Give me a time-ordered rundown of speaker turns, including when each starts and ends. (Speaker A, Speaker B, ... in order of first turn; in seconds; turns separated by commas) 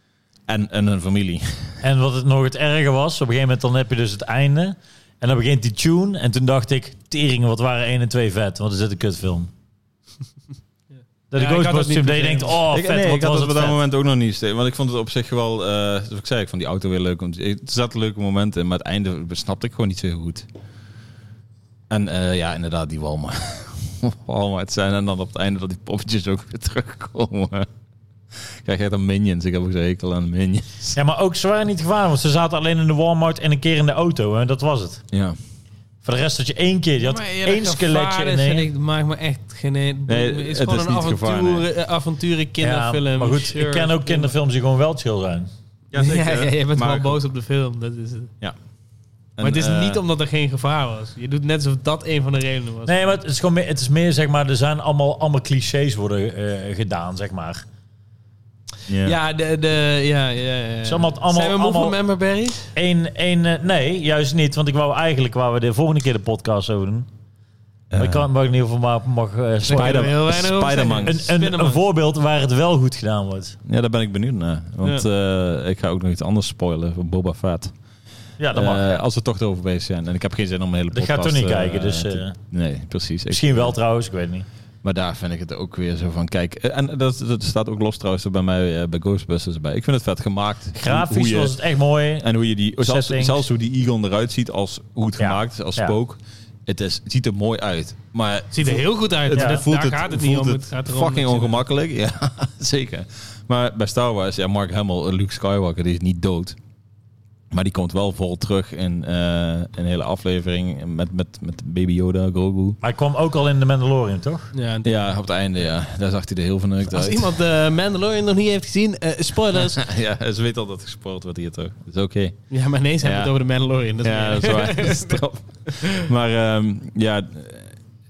Speaker A: 0.5-1.7, Speaker B: 1.8-9.5, Speaker B: 11.3-13.8, Speaker C: 11.3-12.6, Speaker A: 12.7-20.4, Speaker A: 21.9-27.7, Speaker A: 28.4-31.0, Speaker B: 30.9-35.0, Speaker A: 35.1-35.4, Speaker B: 36.0-38.7, Speaker C: 37.0-44.3, Speaker A: 40.1-41.6, Speaker B: 42.6-45.5, Speaker A: 45.9-47.1, Speaker C: 45.9-48.3, Speaker A: 49.4-50.0, Speaker C: 49.4-53.0, Speaker B: 52.9-57.6, Speaker A: 58.9-59.1, Speaker C: 59.0-62.7, Speaker B: 60.8-62.0, Speaker B: 62.8-67.1, Speaker A: 67.9-68.3, Speaker B: 68.0-70.1, Speaker C: 69.6-71.8, Speaker A: 69.7-71.3, Speaker B: 71.0-73.6, Speaker A: 73.7-77.7, Speaker B: 78.4-79.0, Speaker A: 78.5-83.8, Speaker B: 80.9-82.4, Speaker B: 83.3-84.5, Speaker A: 84.8-91.5, Speaker B: 90.7-92.3, Speaker A: 92.2-106.5, Speaker B: 92.8-93.4, Speaker B: 95.2-95.9, Speaker C: 98.5-101.6, Speaker B: 99.3-99.6, Speaker A: 107.5-112.8, Speaker B: 112.8-114.5, Speaker C: 114.5-115.1, Speaker A: 114.8-117.3, Speaker C: 116.9-119.9, Speaker A: 119.7-122.4, Speaker C: 122.5-126.0, Speaker A: 123.0-123.3, Speaker A: 124.0-127.8